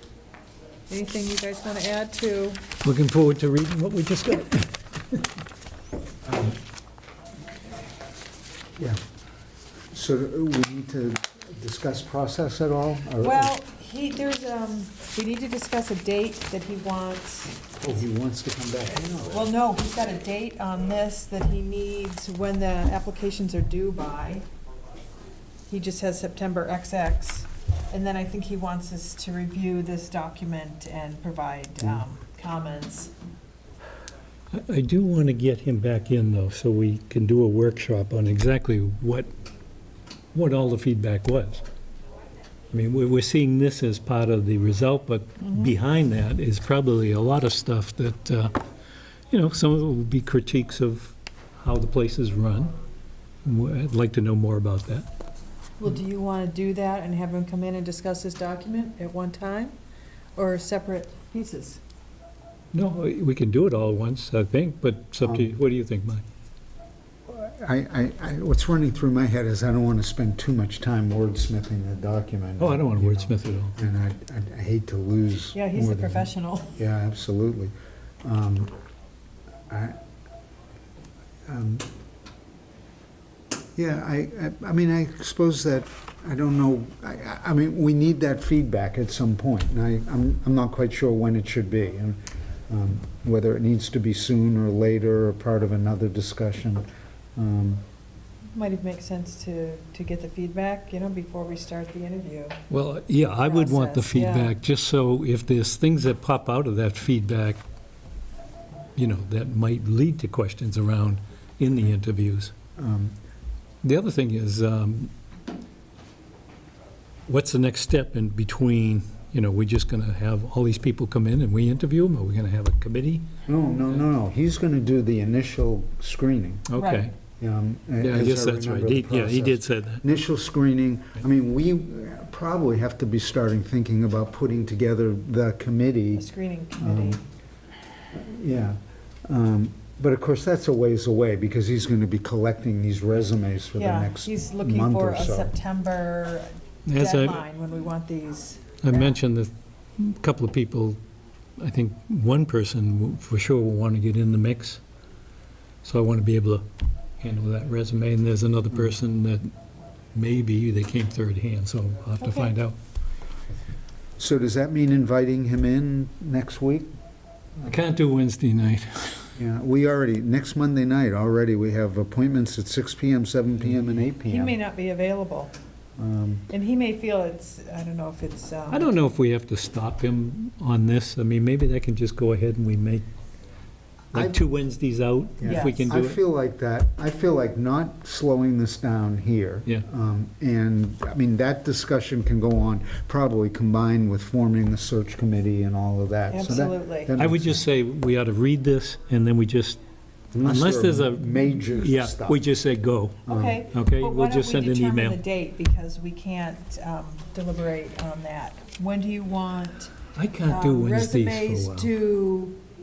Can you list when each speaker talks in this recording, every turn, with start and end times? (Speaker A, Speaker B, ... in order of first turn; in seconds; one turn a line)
Speaker A: 0.9-2.6
Speaker B: 2.8-5.2
Speaker C: 9.9-13.5
Speaker A: 13.2-17.6
Speaker C: 17.8-19.5
Speaker A: 19.3-24.4
Speaker A: 25.7-33.1
Speaker B: 34.5-39.3
Speaker B: 40.3-41.6
Speaker B: 42.7-48.6
Speaker A: 45.4-45.7
Speaker B: 49.3-52.7
Speaker B: 53.5-55.1
Speaker A: 55.8-59.8
Speaker A: 60.4-61.8
Speaker B: 62.7-66.2
Speaker C: 65.2-65.5
Speaker C: 67.3-77.7
Speaker B: 72.6-73.8
Speaker A: 75.5-76.8
Speaker C: 78.2-78.7
Speaker C: 79.7-80.0
Speaker C: 81.5-81.8
Speaker C: 83.8-96.8
Speaker C: 97.4-97.8
Speaker A: 98.5-102.6
Speaker B: 102.7-107.6
Speaker A: 103.4-104.6
Speaker B: 109.0-112.5
Speaker C: 112.8-113.2
Speaker B: 113.8-115.1
Speaker B: 117.3-123.3
Speaker C: 123.5-126.7
Speaker B: 126.7-127.1
Speaker A: 126.8-127.1
Speaker C: 127.4-136.2
Speaker B: 128.0-130.0
Speaker A: 136.1-137.2
Speaker C: 136.8-137.2
Speaker C: 138.1-145.5
Speaker A: 143.8-149.2
Speaker B: 146.9-147.4
Speaker B: 148.8-151.0
Speaker B: 151.6-154.8
Speaker B: 155.8-156.7
Speaker B: 157.2-159.5
Speaker B: 160.2-162.8
Speaker A: 162.2-162.5
Speaker C: 164.2-166.9
Speaker B: 167.6-169.3
Speaker C: 169.4-174.6
Speaker A: 174.3-175.5
Speaker C: 176.0-176.5
Speaker A: 176.5-178.9
Speaker B: 178.7-183.1
Speaker C: 184.1-184.4
Speaker B: 184.1-186.2
Speaker C: 185.4-197.7
Speaker A: 185.4-185.9
Speaker A: 196.3-197.1
Speaker B: 197.2-199.8
Speaker C: 200.3-202.4
Speaker B: 200.4-205.2
Speaker C: 203.3-203.6
Speaker A: 203.3-212.6
Speaker B: 210.2-211.9